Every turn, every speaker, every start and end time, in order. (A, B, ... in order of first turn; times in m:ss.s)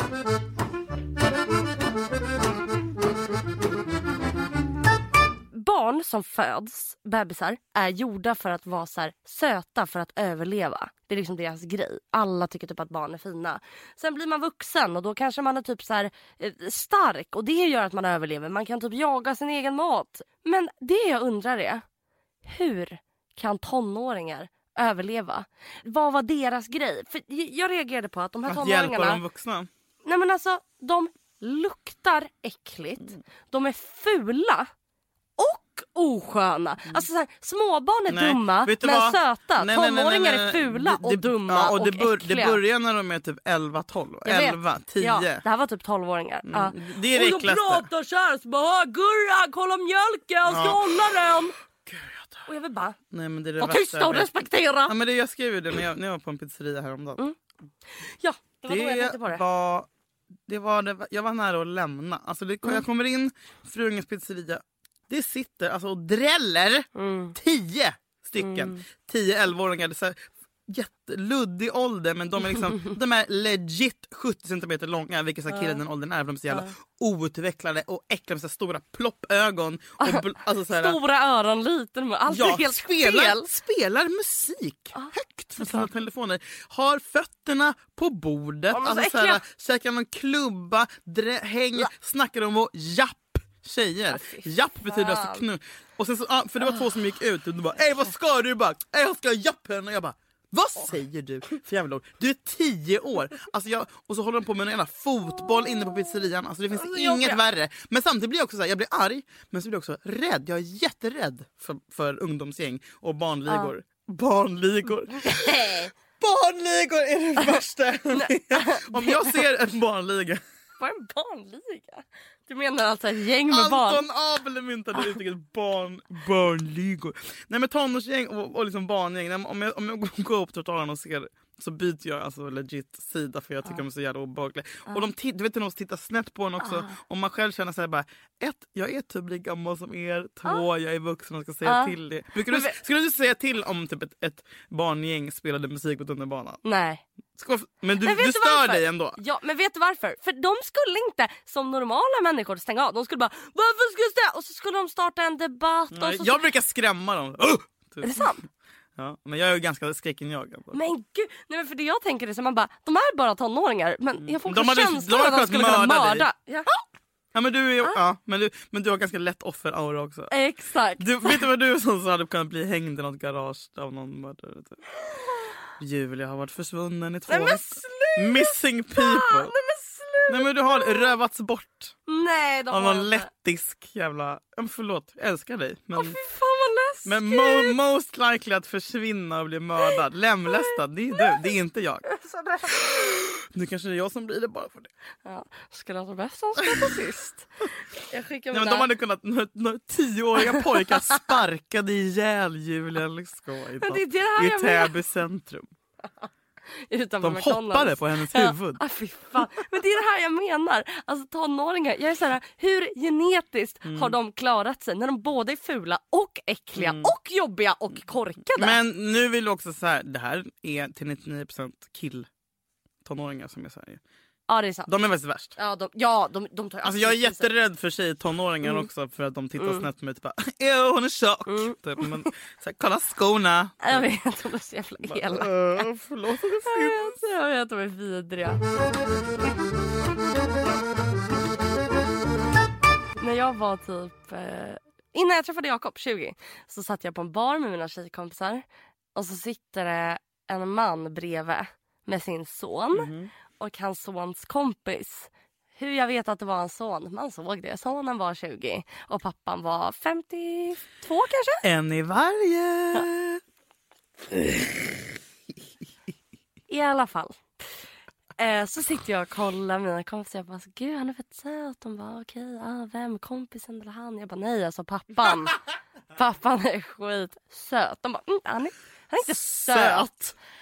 0:05.5-0:21.8 A
0:22.4-0:29.2 A
0:28.5-0:29.7 B
0:30.0-0:34.7 A
0:35.4-0:42.6 A
0:38.1-0:45.4 B
0:44.2-0:51.5 A
0:46.5-0:47.9 B
0:50.5-0:51.1 B
0:51.9-0:52.5 B
0:52.5-0:53.0 A
0:53.1-0:54.3 B
0:53.6-0:54.9 A
0:54.9-0:57.2 B
0:58.0-0:59.4 A
0:58.7-0:59.9 B
1:00.5-1:21.0 B
1:07.0-1:07.4 A
1:08.4-1:08.8 A
1:15.5-1:15.8 A
1:20.0-1:23.5 A
1:22.3-2:00.4 B
1:24.9-1:25.9 A
1:28.7-1:29.4 A
1:34.1-1:35.4 A
1:46.7-1:47.4 A
1:55.2-1:55.9 A
1:58.1-1:59.4 A
2:00.8-2:04.0 A
2:03.5-2:26.6 B
2:16.6-2:17.0 A
2:21.6-2:21.9 A
2:22.5-2:22.8 A
2:26.6-2:27.0 A
2:27.4-2:29.2 B
2:28.0-2:36.4 A
2:35.9-2:38.3 B
2:38.0-2:38.4 A
2:39.0-2:40.8 B
2:40.7-2:46.8 A
2:44.2-2:46.3 B
2:47.3-2:50.3 B
2:50.3-2:51.4 A
2:51.0-2:54.8 B
2:55.8-2:59.5 B
2:57.3-3:01.1 A
3:00.3-3:02.0 B
3:02.1-3:03.3 A
3:02.7-3:06.2 B
3:06.0-3:07.8 A
3:07.1-3:12.1 B
3:10.5-3:11.5 A
3:12.1-3:12.9 A
3:12.7-3:14.9 B
3:15.2-3:17.5 A
3:16.6-3:16.9 B
3:18.1-3:18.9 A
3:18.5-3:25.7 B
3:20.4-3:21.0 A
3:23.8-3:24.9 A
3:26.9-3:38.8 A
3:27.2-3:28.8 B
3:33.8-3:34.2 B
3:36.8-3:37.1 B
3:38.6-3:42.3 B
3:43.0-3:44.0 B
3:44.5-3:44.9 A
3:44.9-3:45.5 B
3:45.6-3:47.5 A
3:46.8-3:54.0 B
3:49.6-3:49.8 A
3:51.5-3:52.3 A
3:53.8-3:55.8 A
3:55.0-3:57.2 B
3:56.7-3:58.6 A
4:03.2-4:08.6 A
4:09.2-4:21.6 A
4:12.9-4:13.3 B
4:21.6-4:23.4 B
4:26.7-4:27.5 A
4:28.4-4:35.6 A
4:36.2-4:40.1 A
4:39.5-4:40.3 B